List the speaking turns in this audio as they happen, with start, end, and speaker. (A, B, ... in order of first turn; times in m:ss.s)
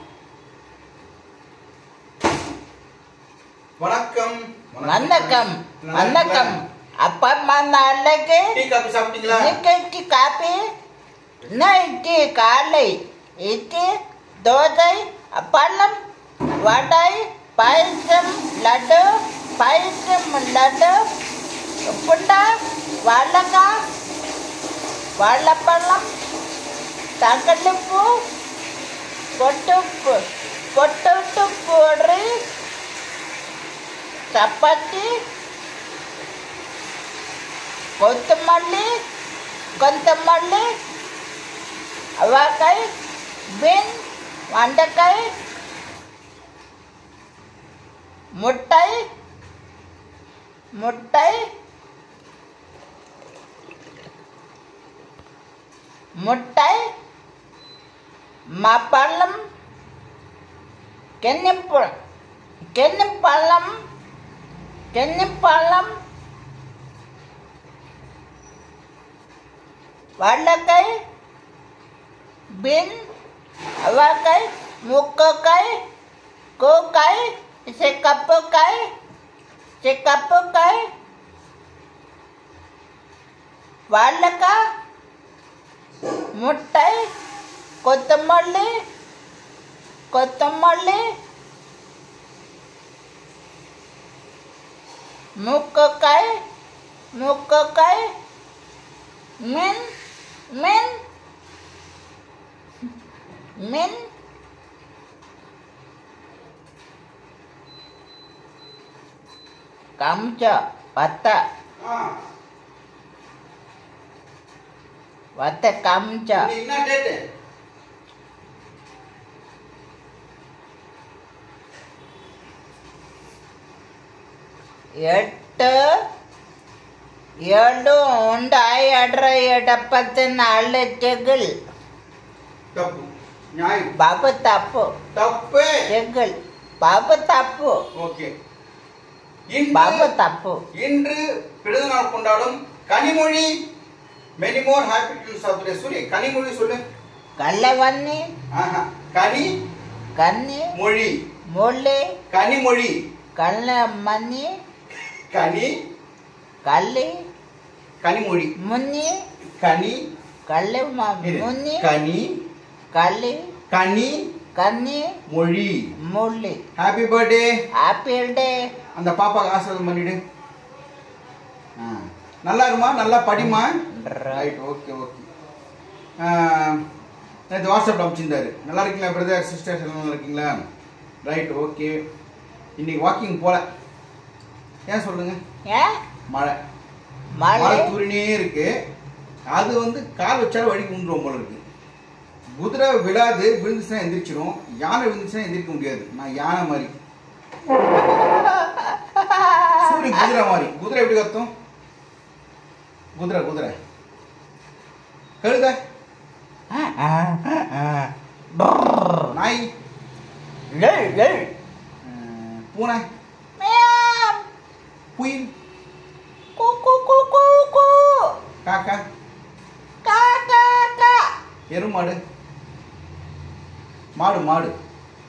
0:03.8-0:06.6 A
0:04.8-0:08.5 B
0:08.5-0:09.6 A
0:09.3-0:10.6 B
0:11.5-0:13.9 B
0:14.4-0:16.0 B
0:16.6-0:19.0 B
0:19.6-0:21.0 B
0:21.9-0:22.5 B
0:23.0-0:23.7 B
0:25.2-0:26.0 B
0:27.2-0:28.1 B
0:29.4-0:30.2 B
0:30.7-0:32.4 B
0:34.3-0:35.1 B
0:38.0-0:38.9 B
0:39.8-0:40.6 B
0:42.2-0:42.9 B
0:43.6-0:44.0 B
0:44.5-0:45.3 B
0:48.4-0:49.0 B
0:50.8-0:51.4 B
0:56.2-0:56.8 B
0:58.6-0:59.4 B
1:01.2-1:01.9 B
1:02.8-1:03.7 B
1:04.9-1:05.9 B
1:10.2-1:10.9 B
1:12.6-1:13.0 B
1:13.8-1:15.8 B
1:16.6-1:18.8 B
1:19.8-1:20.8 B
1:23.9-1:24.5 B
1:26.4-1:27.1 B
1:27.8-1:28.7 B
1:30.1-1:31.0 B
1:35.4-1:36.3 B
1:37.2-1:38.1 B
1:39.4-1:39.8 B
1:40.5-1:41.0 B
1:43.6-1:43.9 B
1:50.0-1:51.4 B
1:51.8-1:52.1 A
1:55.4-1:56.5 B
1:56.3-1:57.2 A
2:05.0-2:05.8 B
2:07.5-2:11.5 B
2:12.7-2:13.9 A
2:14.0-2:14.9 B
2:15.1-2:15.8 A
2:15.9-2:17.8 B
2:17.9-2:18.3 A
2:19.5-2:20.1 A
2:19.7-2:20.6 B
2:20.7-2:23.5 A
2:24.4-2:26.8 A
2:27.4-2:28.2 B
2:28.5-2:29.5 A
2:30.2-2:30.7 B
2:30.7-2:31.1 A
2:31.5-2:32.1 B
2:32.3-2:33.0 A
2:33.4-2:34.5 B
2:35.3-2:35.7 A
2:36.6-2:37.1 B
2:38.0-2:38.5 A
2:38.6-2:39.1 B
2:39.6-2:40.0 A
2:40.5-2:41.9 B
2:41.2-2:42.3 A
2:42.9-2:43.5 B
2:43.7-2:44.3 A
2:44.5-2:45.2 B
2:45.3-2:45.9 A
2:46.1-2:46.6 B
2:46.8-2:47.5 A
2:47.8-2:48.6 B
2:48.9-2:50.2 A
2:51.8-2:53.7 A
2:53.4-2:54.4 B
2:54.3-2:55.3 A
2:56.2-2:56.8 A
2:57.5-3:00.6 A
3:01.2-3:02.0 A
3:02.8-3:03.6 A
3:04.9-3:05.4 A
3:06.3-3:06.6 A
3:07.4-3:07.9 B
3:07.6-3:08.7 A
3:09.5-3:11.6 A
3:12.6-3:16.9 A
3:17.8-3:20.3 B
3:19.8-3:21.5 A
3:23.2-3:23.8 A
3:25.4-3:25.8 A
3:26.7-3:29.3 B
3:29.3-3:29.7 A
3:30.7-3:31.5 B
3:32.0-3:33.0 A
3:33.6-3:34.4 B
3:35.2-3:35.5 A
3:36.6-3:38.3 B
3:38.6-3:39.0 A
3:40.0-3:41.2 B
3:41.7-3:42.2 A
3:44.2-3:44.7 A